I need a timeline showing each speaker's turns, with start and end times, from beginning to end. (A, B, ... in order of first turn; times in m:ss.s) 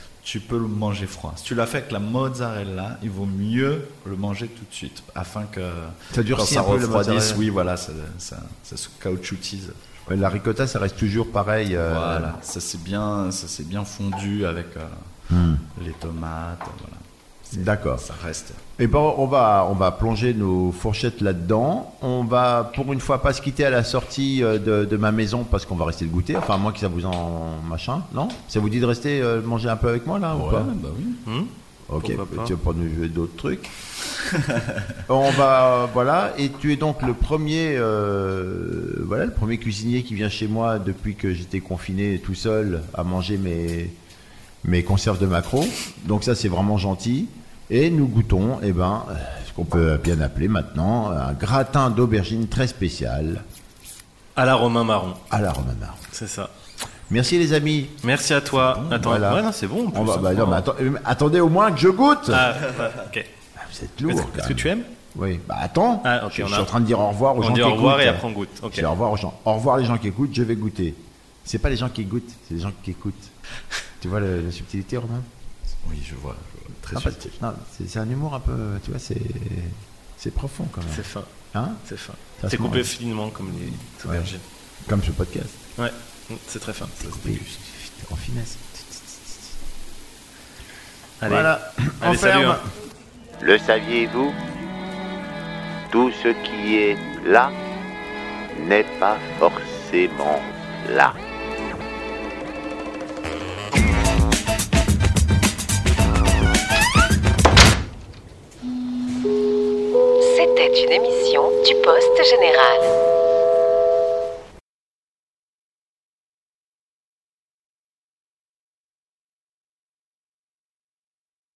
0:00.2-0:10.0 A
0:06.1-0:07.4 B
0:10.1-0:12.4 B
0:11.8-0:15.1 A
0:15.3-0:15.6 B
0:15.8-0:18.6 A
0:17.5-0:18.0 B
0:18.8-0:30.7 B
0:30.3-0:31.2 A
0:31.2-0:32.5 C
0:31.9-0:33.7 B
0:35.1-0:44.0 B
0:44.6-0:53.4 B
0:54.4-0:55.2 C
0:55.3-0:56.0 B
0:56.1-0:56.5 C
0:57.1-0:58.0 B
0:58.0-1:00.6 C
0:58.5-0:59.1 A
0:59.0-1:02.6 B
1:02.3-1:03.3 C
1:03.6-1:13.3 B
1:04.1-1:04.9 C
1:06.0-1:06.7 C
1:07.4-1:08.9 C
1:14.0-1:15.3 B
1:15.8-1:17.3 A
1:16.9-1:21.8 B
1:20.9-1:21.3 C
1:21.8-1:24.4 C
1:22.4-1:22.9 B
1:23.6-1:24.3 B
1:24.9-1:25.6 B
1:25.8-1:26.9 C
1:27.0-1:29.5 B
1:27.1-1:27.4 A
1:31.2-1:32.6 C
1:31.2-1:32.6 B
1:33.4-1:34.4 D
1:35.9-1:37.5 D
1:38.5-1:41.2 D
1:50.2-1:52.9 E